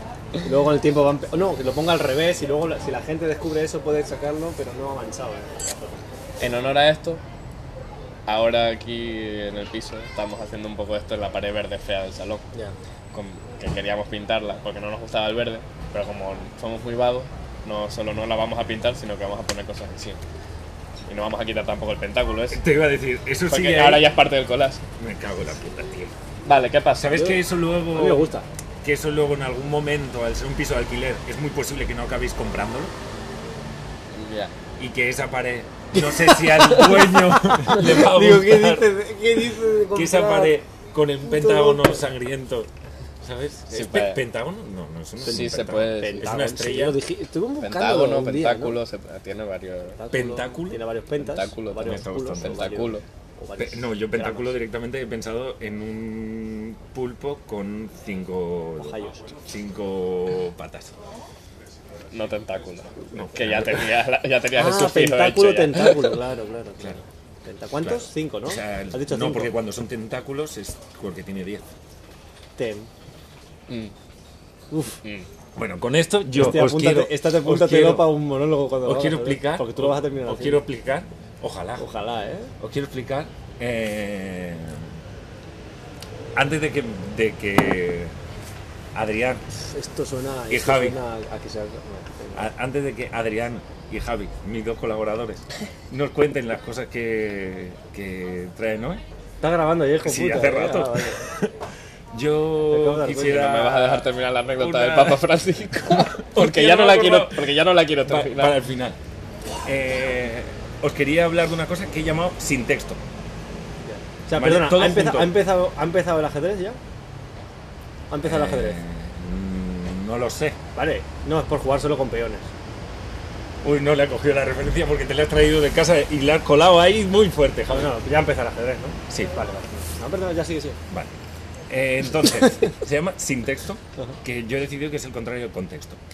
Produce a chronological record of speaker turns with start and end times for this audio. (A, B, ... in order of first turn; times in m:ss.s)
0:00.4-0:06.0 A
0:06.4-0:07.2 B
0:08.3-0:12.4 B
0:13.1-0:20.2 B
0:21.1-0:22.6 B
0:22.5-0:24.1 C
0:23.5-0:24.8 B
0:25.0-0:26.1 C
0:26.4-0:27.2 B
0:27.0-0:28.3 C
0:27.0-0:28.5 A
0:28.8-0:32.9 C
0:34.1-0:34.5 B
0:34.8-0:38.9 C
0:35.9-0:40.6 A
0:39.9-0:42.7 C
0:41.2-0:42.0 A
0:43.2-0:47.0 C
0:43.7-0:44.2 B
0:45.2-0:46.3 B
0:45.2-0:48.8 A
0:47.6-0:50.0 B
0:50.0-0:54.5 A
0:50.1-0:50.8 C
0:51.2-0:53.0 B
0:51.8-0:52.7 C
0:53.6-1:00.9 C
0:58.8-0:59.2 A
1:02.1-1:06.1 B
1:03.1-1:03.9 C
1:04.5-1:09.6 A
1:07.8-1:11.7 C
1:12.6-1:12.9 A
1:13.7-1:13.9 B
1:14.7-1:15.0 A
1:15.6-1:18.1 C
1:16.3-1:20.6 A
1:18.8-1:21.8 C
1:21.8-1:22.5 A
1:22.6-1:24.9 C
1:26.3-1:28.1 C
1:28.9-1:29.4 C
1:29.7-1:32.5 A
1:30.5-1:31.0 C
1:32.3-1:39.0 C
1:39.4-1:41.2 A
1:40.0-1:41.6 C
1:42.1-1:45.2 C
1:42.7-1:43.5 A
1:43.3-1:48.6 B
1:45.9-1:47.5 C
1:48.0-1:49.0 C
1:49.6-1:53.0 C
1:53.8-1:56.8 A
1:54.3-1:55.3 C
1:58.1-1:58.8 A
1:58.2-2:00.6 C
2:00.7-2:02.5 A
2:03.6-2:07.9 C
2:07.7-2:10.8 A
2:11.7-2:16.0 C